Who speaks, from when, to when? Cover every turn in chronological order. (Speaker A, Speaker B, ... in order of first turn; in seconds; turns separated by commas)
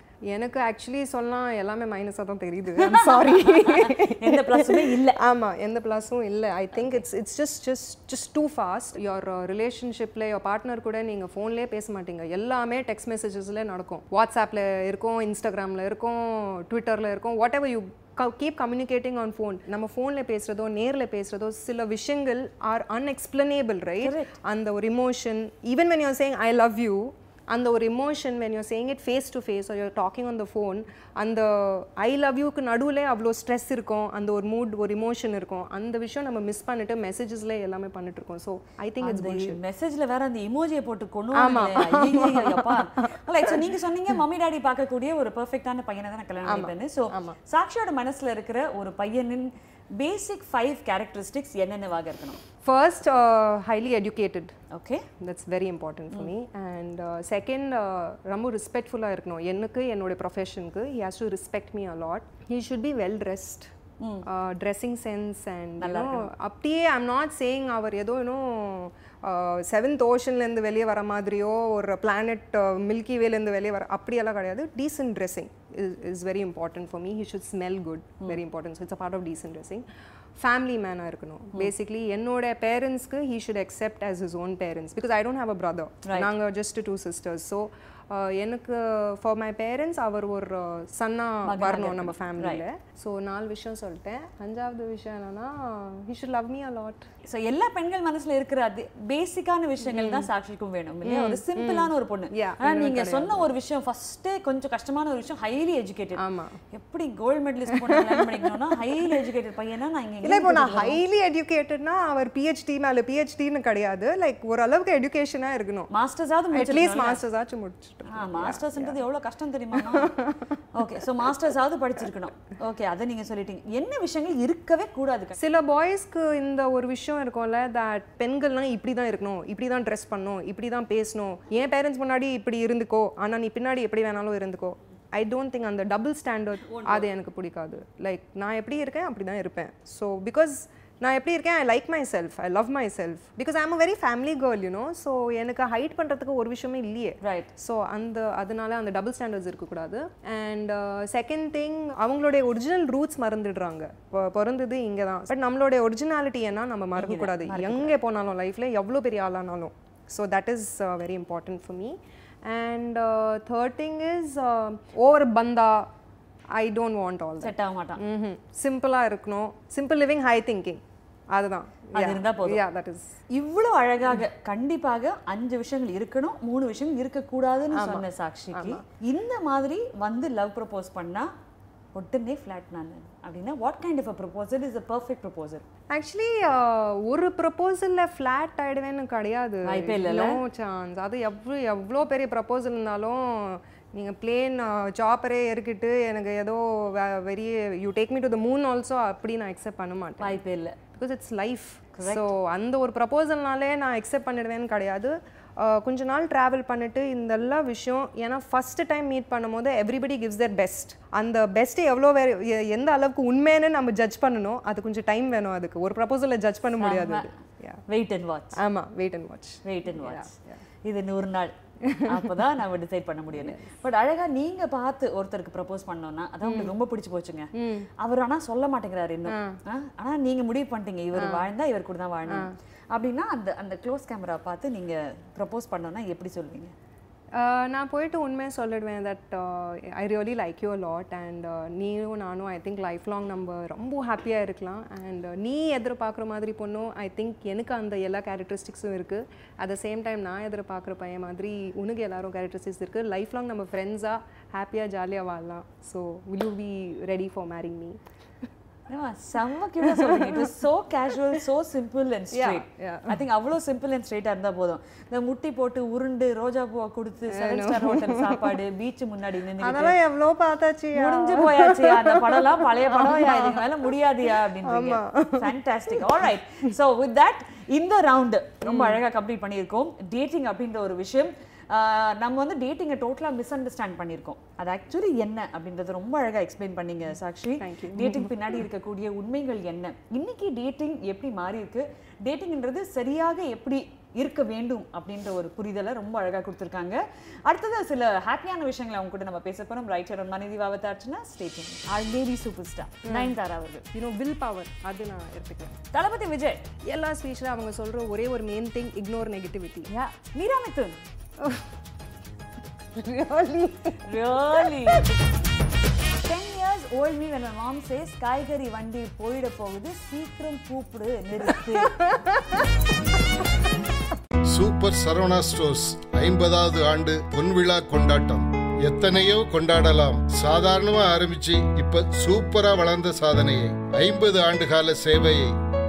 Speaker A: 0.3-39.6, Speaker B: 2.8-5.2, Speaker B: 24.0-24.3, Speaker B: 39.0-52.4, Speaker A: 41.4-43.6, Speaker A: 46.5-47.4, Speaker A: 52.6-54.5, Speaker B: 54.7-55.1, Speaker A: 55.2-63.7, Speaker B: 64.0-64.2, Speaker A: 64.2-79.8, Speaker B: 65.8-66.3, Speaker A: 80.4-97.1, Speaker B: 86.0-86.3, Speaker B: 91.4-92.6, Speaker B: 97.3-111.0, Speaker A: 99.9-100.3, Speaker A: 101.0-103.5, Speaker A: 106.2-106.6, Speaker A: 107.7-108.5, Speaker A: 110.2-115.9, Speaker B: 115.9-117.2, Speaker A: 116.5-119.0, Speaker B: 118.1-120.2, Speaker A: 119.8-120.5, Speaker B: 120.8-125.4, Speaker A: 125.4-165.9, Speaker B: 136.7-137.0, Speaker B: 147.2-147.5, Speaker B: 157.0-157.9, Speaker A: 166.6-170.8, Speaker B: 167.4-168.0, Speaker A: 171.3-173.2, Speaker B: 171.9-172.6, Speaker B: 173.3-181.3, Speaker A: 177.7-178.8, Speaker B: 181.9-185.6, Speaker A: 185.9-200.4, Speaker B: 189.7-190.4, Speaker B: 200.2-200.8, Speaker A: 200.9-217.8, Speaker B: 202.0-202.3, Speaker B: 216.8-217.3, Speaker B: 217.9-218.6, Speaker A: 218.6-220.6, Speaker B: 219.6-220.3, Speaker B: 220.8-221.5, Speaker A: 221.9-222.3, Speaker B: 222.1-236.7, Speaker A: 226.4-226.8, Speaker A: 227.6-227.9, Speaker A: 229.3-229.6, Speaker A: 231.2-231.5, Speaker A: 232.3-232.5, Speaker A: 237.3-258.0, Speaker B: 258.9-270.0, Speaker A: 259.8-260.5, Speaker A: 262.3-263.2, Speaker A: 267.3-268.6, Speaker A: 269.6-276.2, Speaker B: 270.9-303.8, Speaker A: 278.6-279.0, Speaker A: 287.6-288.6, Speaker A: 303.1-303.4, Speaker A: 303.9-305.8, Speaker B: 305.9-306.6, Speaker A: 306.9-309.9, Speaker B: 309.9-311.0, Speaker A: 312.9-315.0, Speaker B: 314.1-315.1, Speaker B: 316.2-322.1, Speaker A: 322.0-322.7, Speaker C: 324.5-335.5